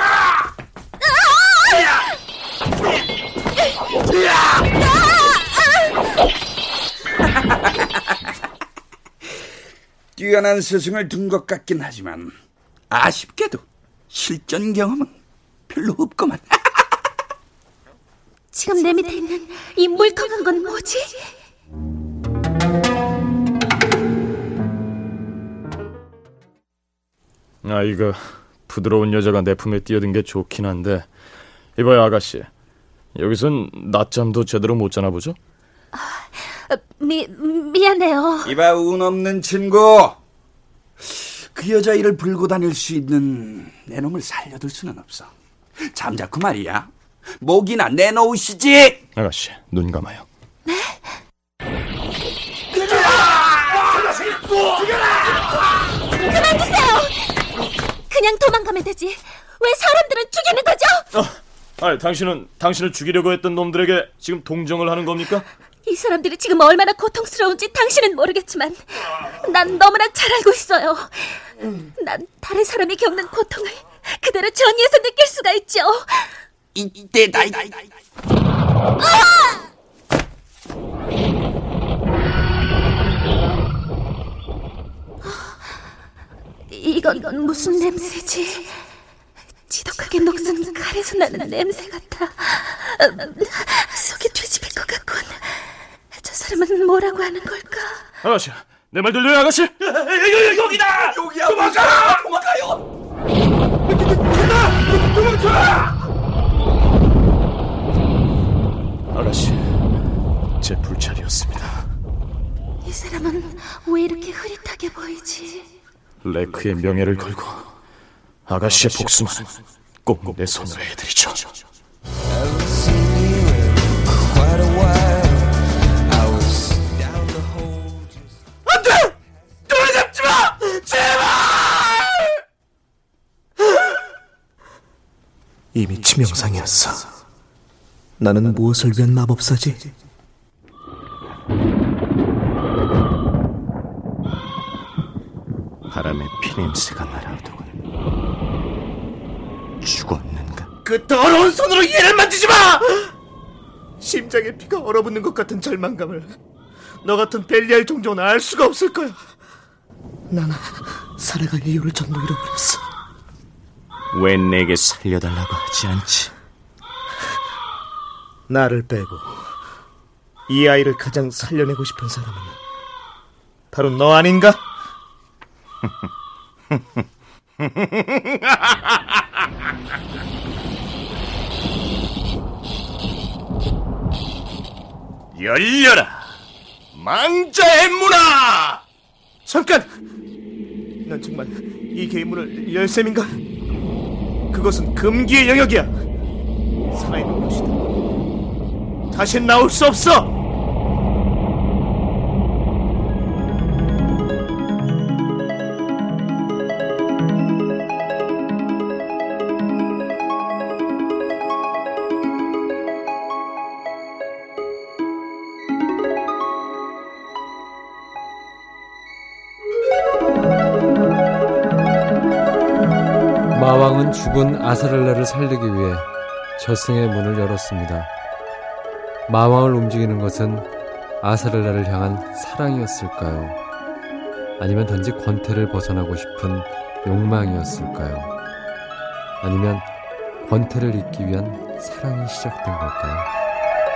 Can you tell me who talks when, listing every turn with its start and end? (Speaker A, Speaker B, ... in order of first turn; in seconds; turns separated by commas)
Speaker A: 1.1-1.9, Speaker B: 7.6-7.9, Speaker B: 10.2-12.3, Speaker B: 12.9-15.2, Speaker B: 15.7-16.8, Speaker A: 18.5-21.3, Speaker C: 27.6-31.1, Speaker C: 31.8-32.5, Speaker C: 33.1-35.4, Speaker A: 35.9-38.5, Speaker B: 38.5-40.2, Speaker B: 41.0-45.3, Speaker B: 45.8-49.0, Speaker C: 49.2-50.3, Speaker A: 50.7-51.2, Speaker A: 56.2-57.1, Speaker A: 58.1-61.0, Speaker C: 61.1-65.5, Speaker A: 65.9-76.4, Speaker B: 76.8-77.9, Speaker A: 79.0-79.7, Speaker A: 86.7-88.8, Speaker A: 89.7-98.0, Speaker C: 98.2-101.8, Speaker B: 100.5-102.8, Speaker C: 109.1-109.7, Speaker C: 110.6-111.9, Speaker A: 112.8-115.7, Speaker C: 116.2-117.7, Speaker C: 118.5-121.5, Speaker D: 128.7-129.1, Speaker D: 129.7-132.2, Speaker D: 135.7-137.1, Speaker D: 138.2-139.9, Speaker E: 145.9-147.8, Speaker E: 149.8-150.7, Speaker D: 150.8-153.1, Speaker D: 154.0-156.3, Speaker D: 157.0-159.2, Speaker D: 160.3-162.8, Speaker E: 164.1-166.3, Speaker D: 168.5-169.4, Speaker D: 170.5-172.6, Speaker D: 173.7-174.6, Speaker E: 185.3-186.3, Speaker C: 187.0-188.8, Speaker D: 189.5-189.9, Speaker D: 191.1-193.4, Speaker D: 194.5-195.9, Speaker D: 196.9-197.8, Speaker D: 199.1-200.3, Speaker F: 223.5-228.1, Speaker F: 229.3-230.7, Speaker F: 231.2-233.6, Speaker F: 234.6-238.3, Speaker F: 239.4-239.9, Speaker F: 240.4-243.3